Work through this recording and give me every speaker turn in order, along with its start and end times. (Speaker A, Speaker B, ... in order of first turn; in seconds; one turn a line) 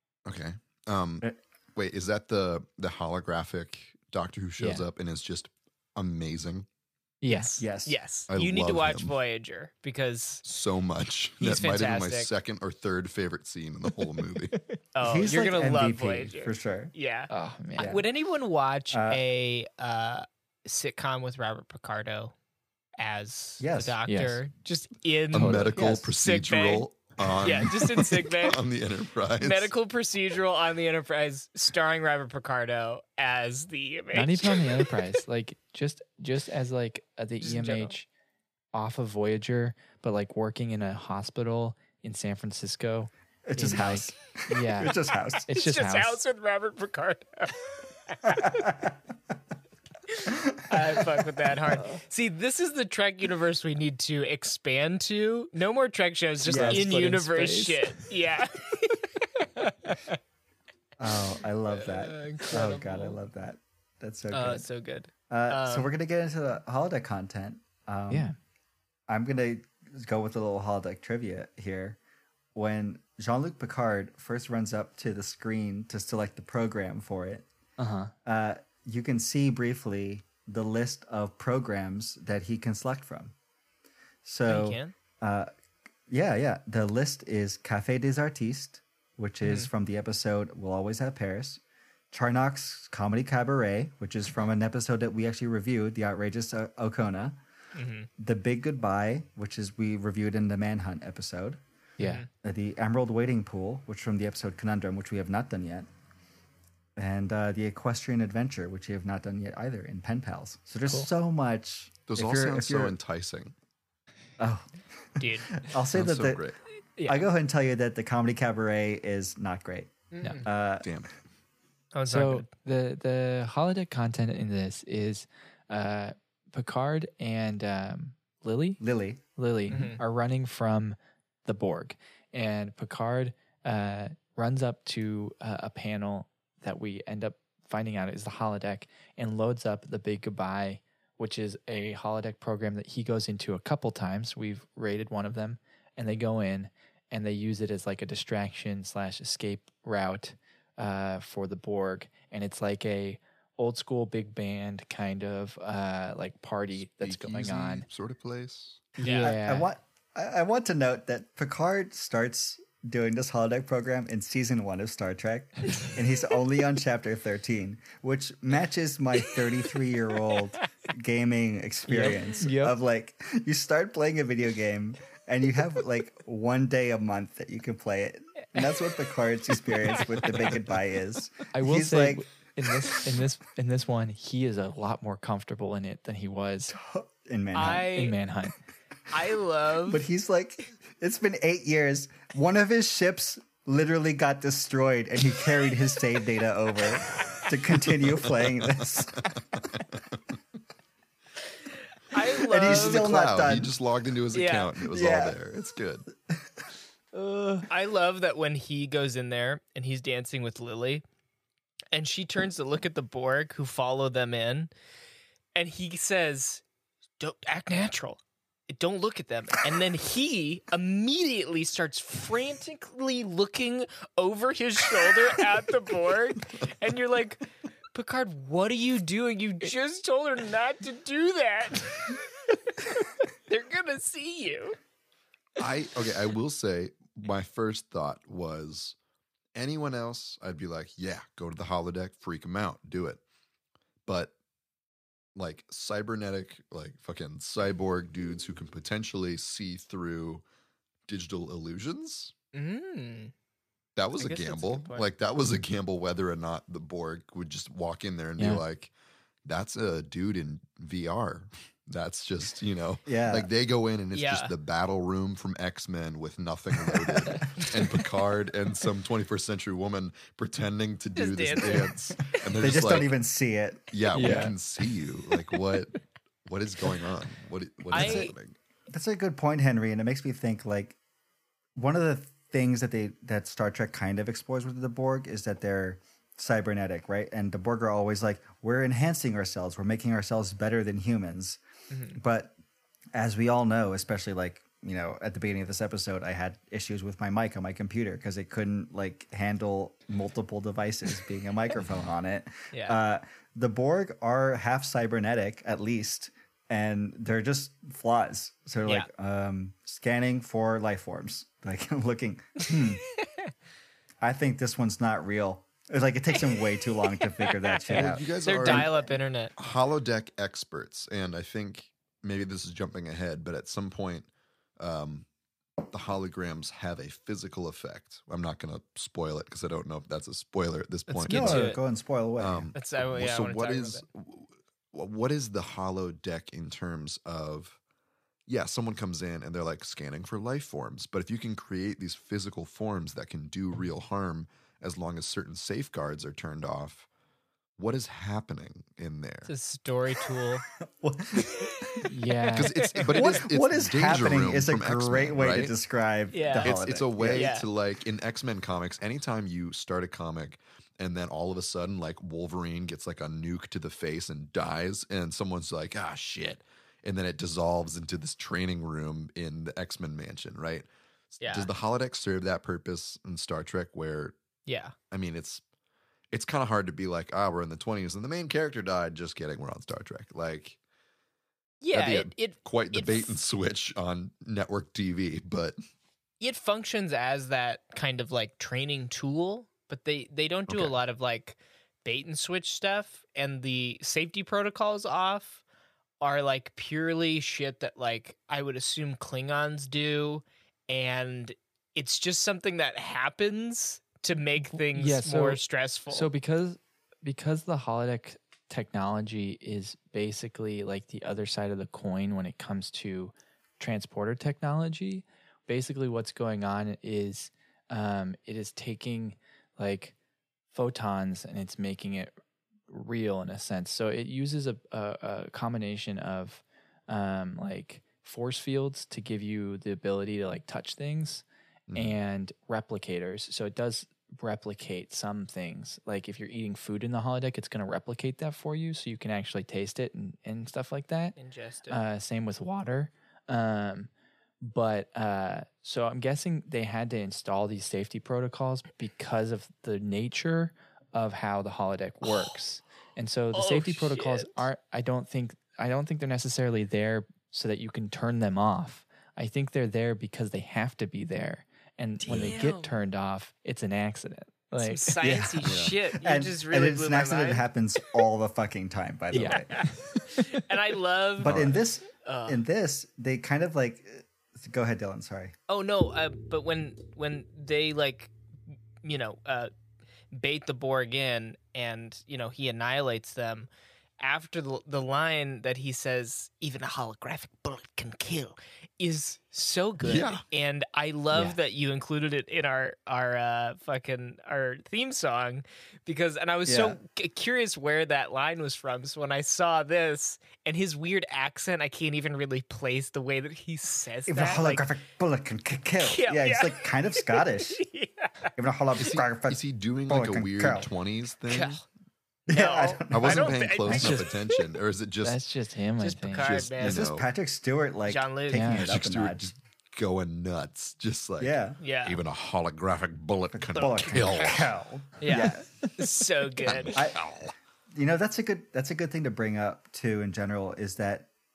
Speaker A: 0.2-6.7
Speaker B: 4.6-4.8
Speaker B: 7.2-7.5
Speaker C: 7.3-10.4
Speaker D: 7.6-8.0
Speaker A: 8.3-9.1
Speaker A: 10.4-14.6
Speaker C: 11.4-12.3
Speaker C: 14.9-22.3
Speaker D: 15.0-16.9
Speaker B: 17.3-17.9
Speaker D: 17.8-18.1
Speaker D: 18.9-19.2
Speaker C: 23.0-26.9
Speaker D: 23.6-23.9
Speaker B: 24.1-24.4
Speaker A: 25.3-29.7
Speaker B: 25.3-26.1
Speaker C: 27.4-28.6
Speaker C: 29.4-34.9
Speaker B: 34.1-38.1
Speaker C: 37.4-38.0
Speaker B: 38.7-46.2
Speaker D: 43.5-45.5
Speaker C: 45.5-47.6
Speaker C: 48.1-48.5
Speaker D: 48.3-48.9
Speaker C: 50.1-60.1
Speaker D: 56.5-56.9
Speaker B: 56.5-57.8
Speaker D: 61.0-64.7
Speaker C: 61.7-63.2
Speaker C: 64.3-65.9
Speaker D: 65.3-68.3
Speaker B: 68.1-68.3
Speaker D: 69.1-72.0
Speaker D: 72.5-77.5
Speaker B: 77.8-78.1
Speaker D: 78.2-83.3
Speaker D: 84.2-85.5
Speaker C: 84.5-84.9
Speaker D: 86.1-91.6
Speaker D: 92.1-97.4
Speaker C: 97.7-98.1
Speaker D: 98.2-101.6
Speaker B: 102.0-102.2
Speaker C: 102.0-102.3
Speaker D: 102.4-105.9
Speaker D: 107.0-113.0
Speaker A: 112.1-113.5
Speaker D: 114.4-114.6
Speaker D: 115.2-116.5
Speaker C: 115.2-115.5
Speaker A: 115.9-116.6
Speaker C: 117.0-117.3
Speaker D: 117.0-120.9
Speaker C: 120.1-120.5
Speaker A: 120.8-121.1
Speaker C: 121.9-122.5
Speaker B: 122.1-128.8
Speaker D: 128.8-129.2
Speaker B: 129.3-157.8
Speaker C: 129.7-130.0
Speaker A: 156.7-158.9
Speaker D: 159.0-182.2
Speaker C: 159.0-159.3
Speaker B: 159.0-159.7
Speaker B: 171.9-172.8
Speaker B: 181.5-186.7
Speaker D: 186.7-187.9
Speaker C: 187.5-188.2
Speaker B: 187.9-188.6
Speaker C: 189.1-190.0
Speaker D: 189.9-199.3
Speaker C: 202.1-203.1
Speaker D: 202.5-203.7
Speaker A: 202.6-206.1
Speaker C: 204.3-204.7
Speaker D: 204.9-205.4
Speaker C: 207.7-211.0
Speaker C: 211.9-214.7
Speaker C: 215.5-216.6
Speaker C: 217.2-232.2
Speaker C: 233.5-234.8
Speaker A: 235.6-238.9
Speaker A: 239.5-243.2
Speaker A: 244.1-244.3
Speaker A: 245.3-250.4
Speaker A: 251.1-252.3
Speaker C: 252.5-253.3
Speaker A: 253.9-258.9
Speaker C: 254.1-255.1
Speaker B: 258.4-258.6
Speaker A: 259.4-273.1
Speaker D: 263.1-263.5
Speaker C: 264.1-264.5
Speaker C: 271.1-272.9
Speaker D: 272.6-274.4
Speaker A: 273.9-278.5
Speaker B: 274.1-274.5
Speaker C: 277.9-278.3
Speaker D: 277.9-278.3
Speaker D: 278.9-281.0
Speaker D: 281.8-291.6
Speaker C: 291.9-292.2
Speaker D: 292.1-292.5
Speaker D: 293.1-313.0
Speaker C: 302.7-303.0
Speaker D: 314.2-319.1
Speaker C: 316.4-319.5
Speaker A: 317.9-319.0
Speaker A: 319.6-324.3
Speaker A: 324.8-325.3
Speaker A: 325.9-331.7
Speaker C: 331.1-331.8
Speaker D: 331.3-332.7
Speaker A: 332.4-337.8
Speaker C: 332.7-334.0
Speaker A: 338.5-347.1
Speaker A: 347.8-349.5
Speaker C: 349.4-350.6
Speaker D: 351.0-351.8
Speaker B: 352.1-352.7
Speaker A: 352.5-355.7
Speaker C: 352.9-353.2
Speaker D: 353.1-357.5
Speaker C: 356.3-356.7
Speaker A: 356.6-374.3
Speaker C: 357.3-357.6
Speaker C: 371.4-371.7
Speaker C: 374.7-374.9
Speaker A: 375.1-375.6
Speaker A: 376.3-380.8
Speaker C: 381.8-383.3
Speaker A: 381.9-385.8
Speaker C: 386.4-395.6
Speaker A: 390.7-391.0
Speaker C: 396.2-406.3
Speaker B: 404.6-420.1
Speaker B: 420.7-422.3
Speaker B: 422.9-431.4
Speaker A: 431.9-432.2
Speaker B: 431.9-441.3
Speaker C: 441.4-442.0
Speaker B: 441.9-444.1
Speaker B: 444.6-465.1
Speaker C: 452.2-452.5
Speaker C: 453.5-454.6
Speaker C: 462.2-462.9
Speaker A: 462.3-462.5
Speaker C: 464.8-467.6
Speaker D: 465.2-469.8
Speaker A: 465.6-465.9
Speaker B: 469.3-470.4
Speaker C: 469.4-472.6
Speaker D: 471.4-475.5
Speaker A: 471.4-471.8
Speaker C: 475.7-478.3
Speaker C: 479.0-479.7
Speaker C: 480.3-483.7
Speaker C: 484.2-504.9
Speaker A: 490.0-490.4
Speaker D: 496.6-497.0
Speaker D: 504.3-507.8
Speaker C: 506.0-508.5
Speaker D: 508.6-510.9
Speaker A: 509.0-511.8
Speaker C: 511.5-511.8
Speaker D: 512.5-514.1
Speaker C: 512.5-514.6
Speaker A: 513.1-515.4
Speaker B: 513.9-514.3
Speaker B: 515.2-516.5
Speaker C: 516.0-517.1
Speaker A: 516.4-517.2
Speaker D: 516.8-519.5
Speaker C: 518.1-518.7
Speaker B: 518.5-518.8
Speaker A: 518.7-524.7
Speaker D: 521.4-521.8
Speaker C: 521.8-522.2
Speaker D: 523.5-525.7
Speaker C: 523.8-524.6
Speaker C: 525.2-527.0
Speaker A: 526.6-527.5
Speaker D: 526.9-527.2
Speaker D: 527.9-531.3